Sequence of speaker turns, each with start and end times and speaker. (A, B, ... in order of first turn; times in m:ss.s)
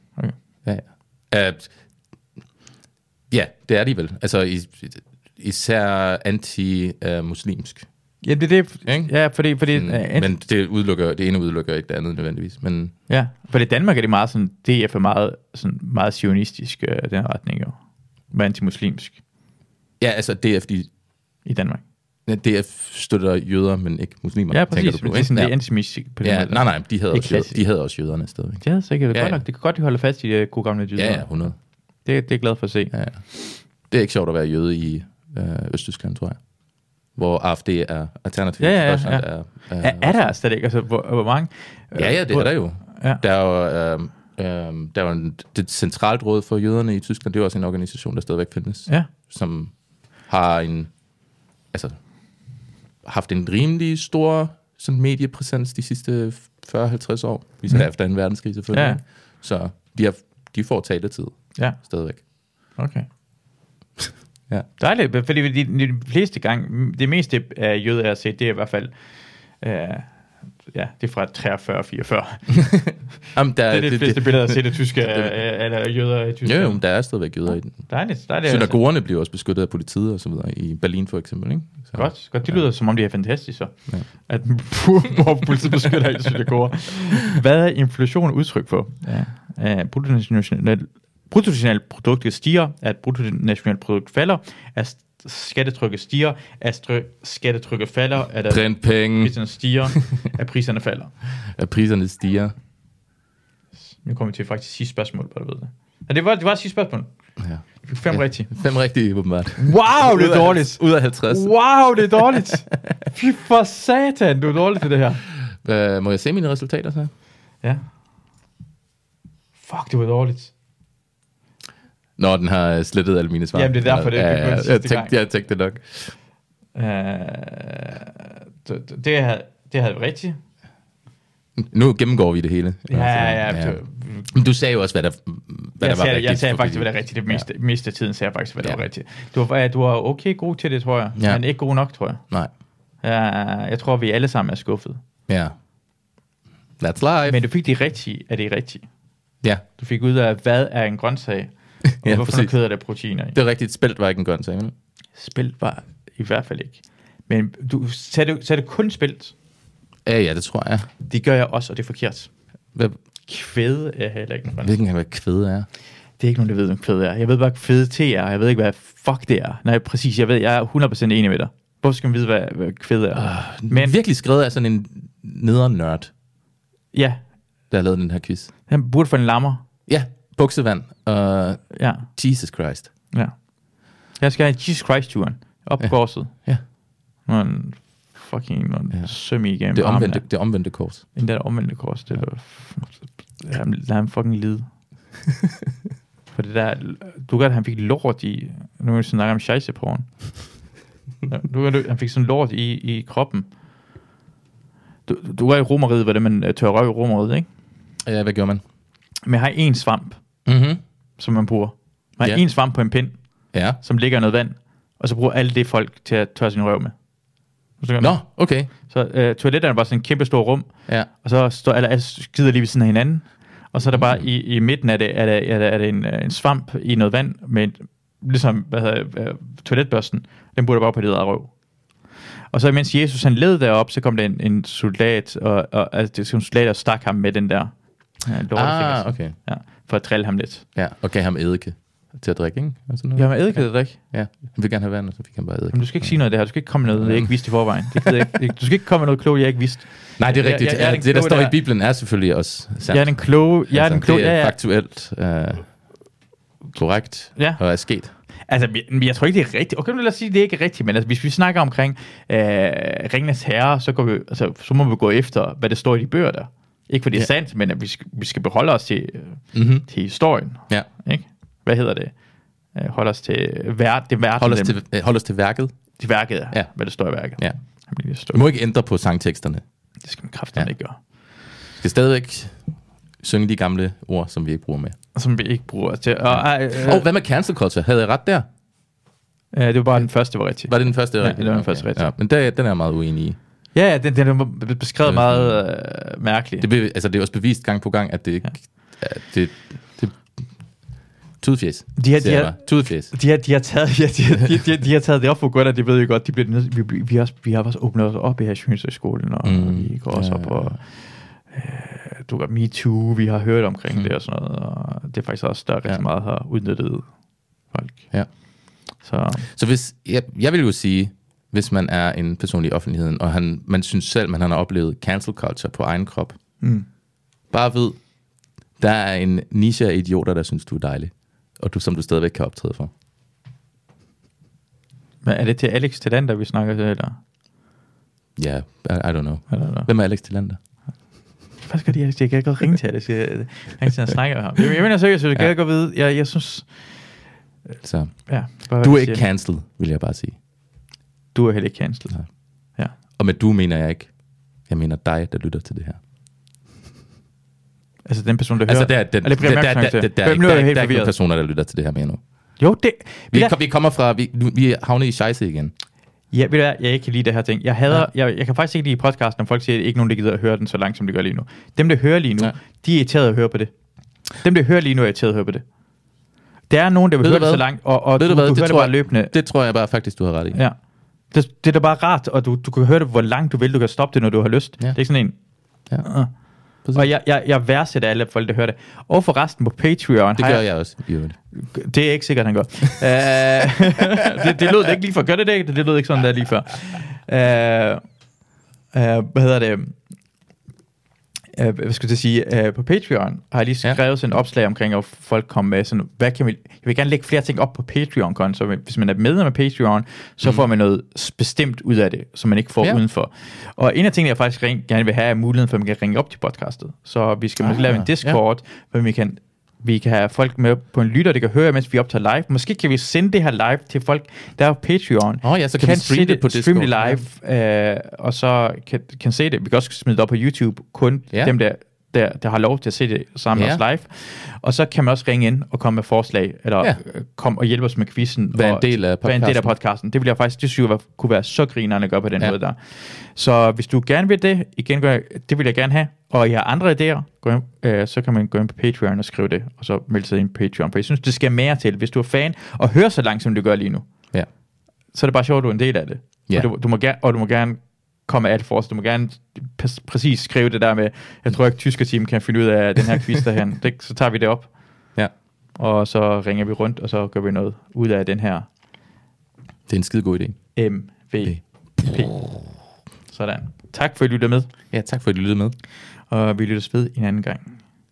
0:00.6-0:01.7 A
0:03.3-0:07.9 A
0:08.2-0:10.3 B
0:08.9-0:12.9 A
0:13.1-0:17.8 B
0:18.3-0:19.2 B
0:20.0-0:20.9 A
0:21.4-0:21.8 B
0:22.3-0:29.4 A
0:24.5-0:27.6 B
0:28.6-0:33.0 B
0:31.0-0:31.6 A
0:32.9-0:40.3 A
0:38.6-0:43.2 B
0:42.0-0:50.9 A
0:51.7-0:52.0 A
0:53.0-1:02.2 A
0:58.7-0:59.0 B
1:01.6-1:03.1 B
1:04.8-1:08.9 B
1:09.6-1:12.8 B
1:12.7-1:15.3 A
1:13.7-1:16.8 B
1:16.4-1:22.6 A
1:17.9-1:18.8 B
1:21.9-1:41.1 B
1:38.5-1:39.4 A
1:41.4-1:42.5 A
1:44.0-1:47.1 B
1:47.4-1:52.4 A
1:47.8-1:48.5 B
1:49.6-1:55.2 B
1:55.5-1:57.1 A
1:59.6-2:00.5 B
2:02.2-2:06.2 A
2:03.5-2:05.2 B
2:06.8-2:10.4 B
2:11.6-2:17.5 A
2:12.9-2:14.3 B
2:15.8-2:22.2 B
2:21.2-2:21.4 A
2:23.0-2:25.0 B
2:25.3-2:25.6 A
2:26.8-2:27.4 A
2:27.3-2:28.9 B
2:29.8-2:33.4 B
2:31.9-2:32.6 A
2:33.3-2:34.7 A
2:35.2-2:39.3 B
2:40.0-2:40.9 A
2:41.0-2:42.3 B
2:43.3-2:44.8 B
2:44.6-2:45.7 A
2:46.2-2:54.0 B
2:53.2-2:56.1 A
2:56.9-2:57.2 B
2:57.7-2:58.5 A
2:58.7-2:59.6 B
2:59.9-3:02.9 A
3:01.7-3:02.1 B
3:03.1-3:06.5 B
3:07.2-3:10.6 B
3:08.9-3:11.1 A
3:11.1-3:14.7 B
3:16.3-3:20.1 B
3:21.3-3:23.5 B
3:25.1-3:27.5 B
3:28.0-3:28.6 A
3:29.3-3:30.2 B
3:30.4-3:30.8 A
3:31.2-3:33.2 B
3:33.5-3:33.8 A
3:33.8-3:37.0 B
3:37.8-3:51.6 B
3:38.0-3:38.7 A
3:52.5-4:00.7 B
3:58.6-3:59.4 A
4:00.8-4:06.3 A
4:03.2-4:04.0 B
4:05.7-4:11.6 B
4:06.9-4:07.8 A
4:10.2-4:15.8 A
4:12.9-4:14.6 B
4:16.7-4:18.1 A
4:17.4-4:17.6 B
4:18.2-4:32.2 B
4:29.5-4:29.9 A
4:32.7-4:34.8 B
4:34.4-4:36.0 A
4:36.0-4:38.4 B
4:38.3-4:39.6 A
4:40.0-4:41.0 B
4:41.8-4:42.7 A
4:43.2-4:45.0 A
4:45.2-4:47.0 B
4:46.3-4:48.5 A
4:49.5-4:52.1 B
4:50.6-4:53.4 A
4:53.7-4:56.7 B
4:55.0-4:55.6 A
4:56.6-5:00.4 A
5:01.4-5:03.1 A
5:02.0-5:19.5 B
5:09.4-5:10.8 A
5:19.5-5:26.4 A
5:26.6-5:26.9 B
5:27.5-5:28.1 A
5:28.8-5:32.9 A
5:35.2-5:37.2 B
5:38.4-5:40.6 A
5:39.5-5:39.9 B
5:41.6-5:47.0 B
5:47.8-5:50.4 A
5:48.3-5:49.2 B
5:51.3-5:52.2 B
5:53.2-5:56.0 A
5:58.0-6:01.1 B
5:58.7-6:02.2 A
6:02.6-6:03.5 B
6:03.3-6:05.7 A
6:06.3-6:13.7 B
6:14.4-6:15.6 B
6:16.7-6:19.3 B
6:17.2-6:20.6 A
6:21.3-6:25.4 B
6:25.9-6:26.3 B
6:26.8-6:30.7 B
6:30.4-6:31.4 A
6:31.5-6:38.0 B
6:38.9-6:39.9 B
6:41.5-7:34.1 B
6:57.8-6:58.4 A
7:05.4-7:07.2 A
7:13.5-7:13.8 A
7:18.5-7:19.7 A
7:35.1-7:44.7 B
7:45.8-7:48.7 B
7:49.9-7:50.6 A
7:50.8-7:52.4 B
7:53.3-7:54.7 B
7:54.9-7:55.7 A
7:56.3-7:57.8 B